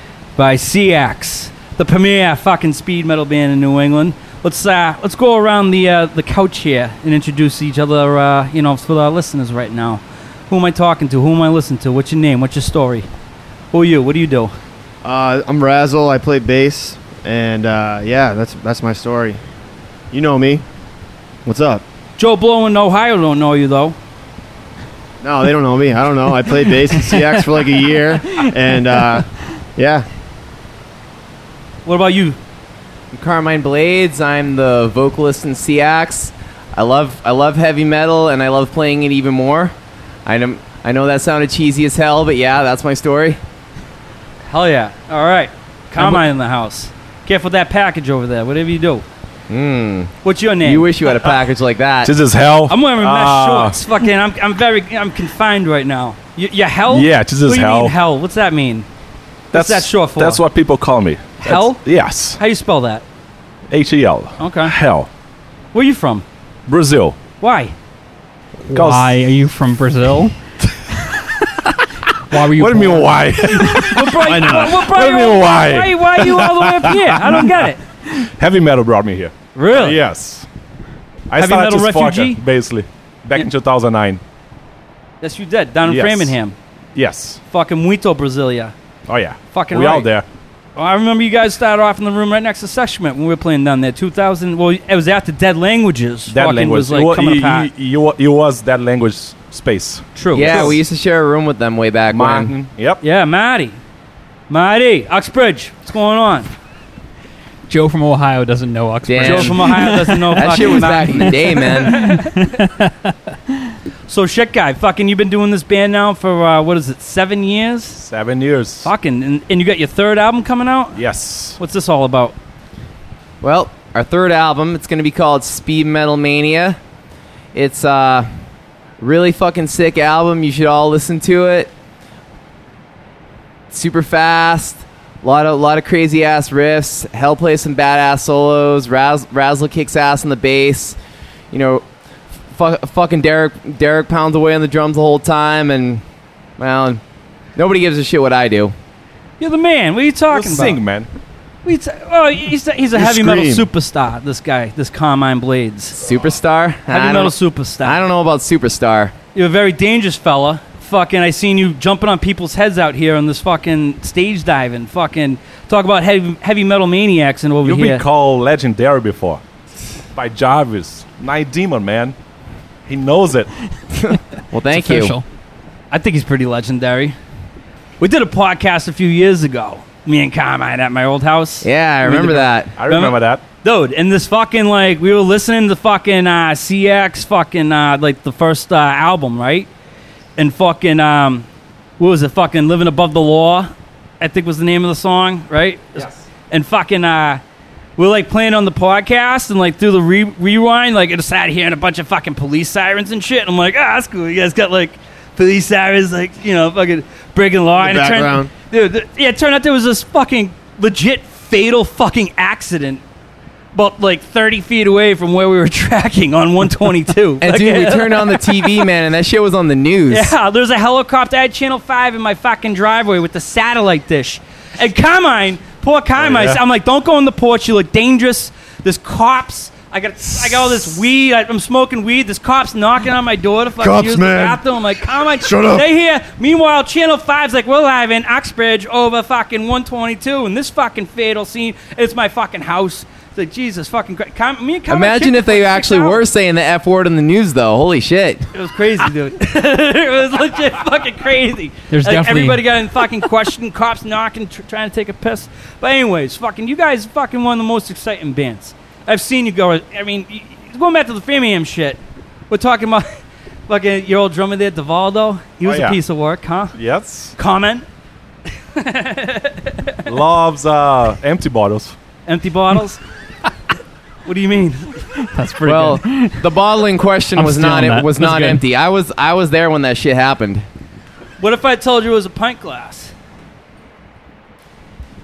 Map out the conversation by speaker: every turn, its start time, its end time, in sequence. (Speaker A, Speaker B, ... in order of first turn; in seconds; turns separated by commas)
Speaker A: 0.3-13.1, Speaker A: 13.7-14.5, Speaker B: 15.0-19.4, Speaker B: 20.1-20.6, Speaker B: 21.4-21.8, Speaker A: 22.2-23.9, Speaker B: 25.2-30.1, Speaker A: 31.9-32.4, Speaker C: 33.1-39.7, Speaker C: 40.2-43.4, Speaker A: 44.5-49.0, Speaker C: 49.5-52.1, Speaker A: 50.2-50.9, Speaker D: 52.0-53.8, Speaker A: 52.7-58.9, Speaker D: 56.9-57.9, Speaker A: 59.5-60.4, Speaker D: 59.5-62.4, Speaker A: 61.4-61.8, Speaker A: 62.4-63.0, Speaker D: 63.7-65.1, Speaker A: 64.4-64.7, Speaker A: 65.7-66.2, Speaker D: 66.7-67.2, Speaker A: 67.4-67.7, Speaker E: 68.7-70.3, Speaker D: 68.7-69.1, Speaker E: 72.3-73.9, Speaker D: 72.3-80.5, Speaker A: 73.7-77.8, Speaker A: 79.5-80.0, Speaker D: 81.3-84.2, Speaker A: 81.4-82.4, Speaker A: 85.2-86.5, Speaker D: 85.9-86.3, Speaker D: 86.9-87.4, Speaker A: 87.5-88.7, Speaker D: 89.1-90.2, Speaker A: 89.5-90.1, Speaker A: 90.8-97.7, Speaker D: 96.3-100.8, Speaker A: 100.2-100.8, Speaker C: 100.3-102.5, Speaker D: 102.1-103.0, Speaker A: 103.0-103.8, Speaker A: 104.5-106.5, Speaker E: 107.7-113.7, Speaker C: 109.0-109.7, Speaker A: 109.2-112.6, Speaker C: 110.3-112.1, Speaker A: 114.1-118.0, Speaker D: 118.0-118.9, Speaker A: 118.8-121.0, Speaker D: 120.9-121.6, Speaker A: 121.6-122.3, Speaker C: 123.4-126.8, Speaker C: 127.5-128.3, Speaker C: 129.0-131.7, Speaker C: 133.7-141.0, Speaker C: 141.5-141.8, Speaker C: 142.5-146.0, Speaker C: 146.6-147.0, Speaker C: 147.6-148.7, Speaker A: 149.4-150.8, Speaker D: 150.3-151.1, Speaker A: 151.6-156.0, Speaker B: 152.9-153.7, Speaker C: 156.0-159.1, Speaker A: 156.9-158.0, Speaker A: 159.3-168.0, Speaker D: 167.6-169.4, Speaker D: 170.1-172.1, Speaker D: 172.9-173.5, Speaker C: 174.0-175.1, Speaker E: 174.7-175.2, Speaker A: 175.9-177.2, Speaker A: 178.0-189.7, Speaker C: 181.6-182.7, Speaker D: 182.7-183.4, Speaker A: 190.4-191.4, Speaker A: 192.0-197.4, Speaker A: 198.0-213.0, Speaker B: 207.8-208.5, Speaker A: 213.7-218.9, Speaker C: 217.4-220.3, Speaker A: 220.1-246.2, Speaker D: 226.2-226.6, Speaker B: 233.8-235.8, Speaker C: 244.9-248.5, Speaker A: 248.5-262.0, Speaker E: 251.9-252.6, Speaker A: 262.5-266.8, Speaker D: 265.6-266.0, Speaker D: 266.7-267.3, Speaker A: 267.4-267.9, Speaker A: 268.6-270.1, Speaker D: 270.1-271.9, Speaker A: 272.3-273.0, Speaker A: 274.2-275.1, Speaker E: 275.2-276.5, Speaker C: 275.6-280.6, Speaker E: 277.4-278.6, Speaker A: 281.4-283.1